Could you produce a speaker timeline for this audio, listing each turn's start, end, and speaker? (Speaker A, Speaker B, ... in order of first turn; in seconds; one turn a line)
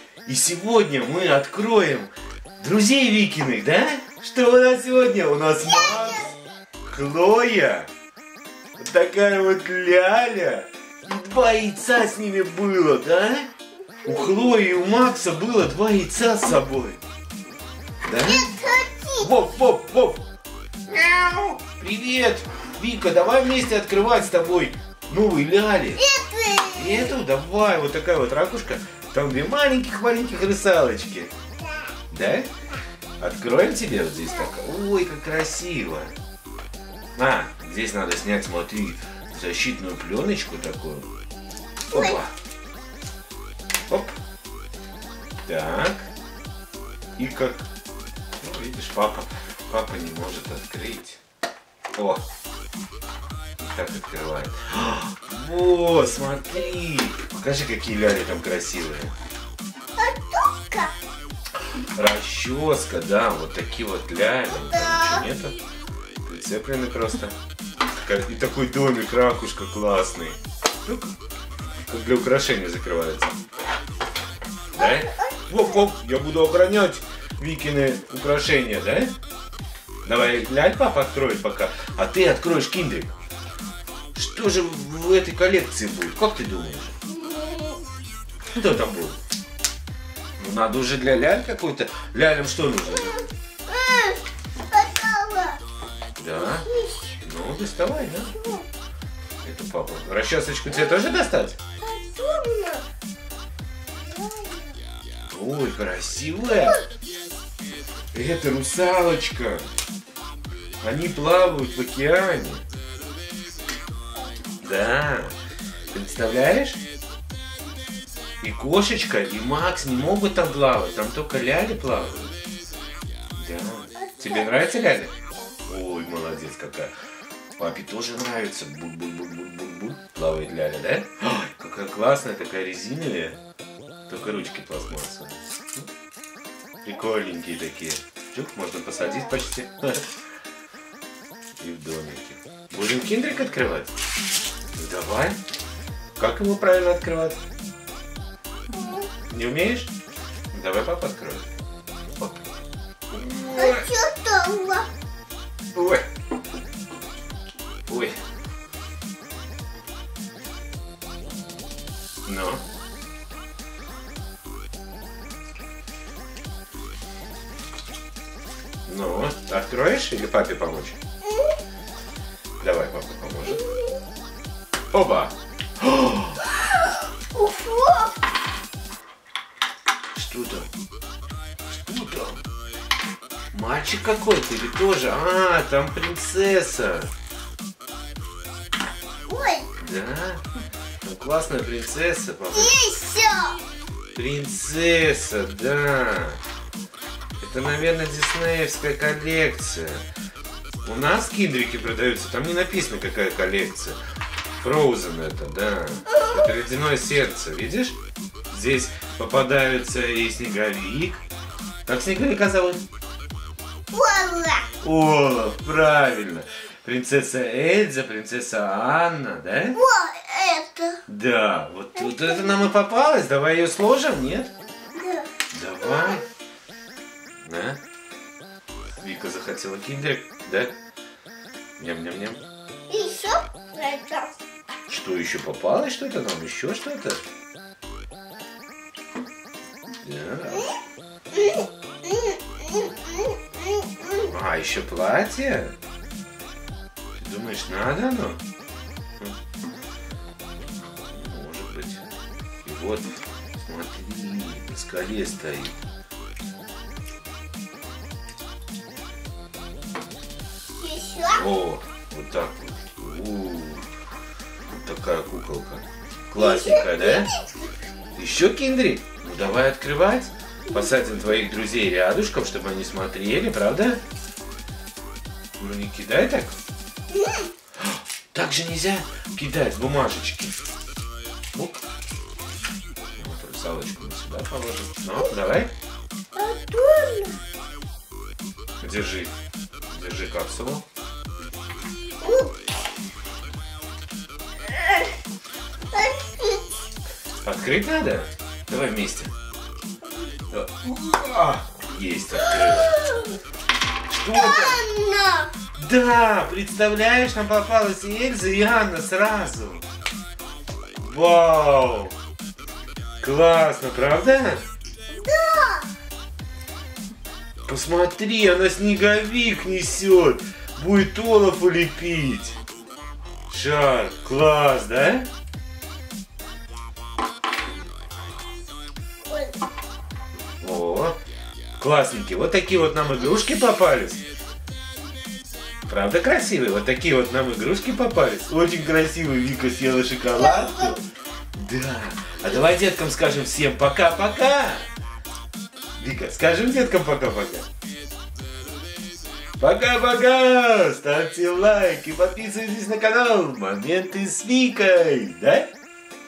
Speaker A: 0.2-6.3
Speaker B: 5.6-6.3
Speaker A: 6.8-7.9
Speaker A: 8.8-13.5
Speaker A: 14.0-17.0
Speaker A: 18.0-18.5
Speaker B: 18.2-19.3
Speaker A: 19.2-20.3
Speaker A: 20.9-26.0
Speaker B: 26.0-27.1
Speaker A: 26.7-31.3
Speaker B: 31.6-31.9
Speaker A: 32.1-32.5
Speaker A: 33.2-36.1
Speaker A: 37.2-41.1
Speaker A: 41.9-42.3
Speaker B: 41.9-42.2
Speaker A: 43.9-44.2
Speaker A: 45.5-46.1
Speaker A: 47.2-47.7
Speaker A: 48.4-51.2
Speaker A: 52.0-52.2
Speaker A: 53.6-59.1
Speaker B: 60.0-61.0
Speaker A: 61.9-65.6
Speaker B: 64.5-65.2
Speaker A: 66.2-67.3
Speaker A: 68.0-71.1
Speaker A: 71.9-73.4
Speaker A: 74.7-79.1
Speaker B: 74.8-75.8
Speaker A: 80.0-83.1
Speaker A: 84.1-87.0
Speaker B: 87.1-87.8
Speaker A: 88.5-89.2
Speaker A: 90.4-93.2
Speaker B: 92.9-95.6
Speaker A: 96.2-96.7
Speaker B: 96.4-97.2
Speaker A: 97.2-98.3
Speaker B: 98.2-98.7
Speaker A: 99.4-101.6
Speaker B: 101.8-102.8
Speaker B: 104.0-104.8
Speaker A: 105.3-106.8
Speaker B: 106.5-106.9
Speaker A: 108.1-109.7
Speaker A: 110.8-112.6
Speaker A: 114.6-115.4
Speaker A: 115.9-116.8
Speaker A: 118.4-122.4
Speaker A: 123.4-125.1
Speaker B: 124.0-124.8
Speaker A: 125.7-126.9
Speaker A: 127.6-133.4
Speaker A: 134.1-135.9
Speaker A: 136.8-140.0
Speaker B: 138.9-139.3
Speaker A: 141.6-143.9
Speaker A: 144.8-145.4
Speaker A: 146.2-147.4
Speaker B: 148.7-149.1
Speaker A: 149.2-149.9
Speaker A: 150.5-151.5
Speaker A: 153.1-153.9
Speaker B: 153.5-154.9
Speaker A: 155.7-156.1
Speaker A: 157.9-158.2
Speaker A: 162.2-162.6
Speaker A: 168.8-171.0
Speaker B: 171.2-171.5
Speaker A: 172.6-173.6
Speaker B: 173.5-173.9
Speaker A: 174.9-176.4
Speaker B: 177.3-178.2
Speaker A: 180.2-180.7
Speaker A: 181.7-182.4
Speaker A: 183.5-187.1
Speaker B: 189.2-189.7
Speaker A: 189.8-190.4
Speaker A: 191.0-192.8
Speaker B: 192.5-193.6
Speaker A: 194.2-196.4
Speaker A: 197.4-200.0
Speaker A: 200.8-204.0
Speaker A: 204.6-208.0
Speaker B: 206.1-206.5
Speaker A: 208.5-211.2
Speaker A: 211.8-212.8
Speaker B: 213.9-214.7
Speaker A: 214.8-219.8
Speaker B: 219.7-221.0
Speaker A: 221.1-224.5
Speaker B: 222.0-222.7
Speaker B: 225.0-225.3
Speaker A: 225.5-226.2
Speaker B: 225.8-226.2
Speaker A: 227.4-227.8
Speaker A: 229.0-230.7
Speaker A: 231.8-232.4
Speaker B: 232.9-234.3
Speaker A: 234.9-237.2
Speaker A: 240.0-240.7
Speaker B: 241.3-244.2
Speaker A: 244.2-245.8
Speaker A: 247.2-248.4
Speaker A: 250.9-252.1
Speaker A: 252.6-255.8
Speaker B: 260.8-261.4
Speaker A: 261.3-263.8
Speaker A: 264.7-267.3
Speaker B: 266.4-267.7
Speaker A: 268.1-274.0
Speaker B: 270.7-270.9
Speaker A: 275.6-276.6
Speaker B: 277.1-277.5
Speaker A: 277.8-280.6
Speaker A: 281.5-281.8
Speaker A: 283.2-285.7
Speaker B: 286.3-287.4
Speaker A: 288.8-289.3
Speaker A: 289.9-290.8
Speaker B: 292.2-292.5
Speaker B: 294.7-295.1
Speaker B: 295.9-296.7
Speaker A: 297.4-299.3
Speaker A: 300.5-303.0
Speaker B: 302.4-303.4
Speaker A: 304.1-304.8
Speaker B: 304.3-305.5
Speaker A: 305.8-309.9
Speaker A: 311.0-312.1
Speaker A: 313.2-314.6
Speaker B: 315.1-315.9
Speaker A: 317.6-322.6
Speaker A: 323.5-325.3
Speaker B: 329.3-329.6
Speaker A: 330.6-331.2
Speaker A: 331.8-334.2
Speaker A: 335.9-344.9
Speaker B: 340.3-341.0
Speaker A: 346.0-347.6
Speaker A: 349.6-355.7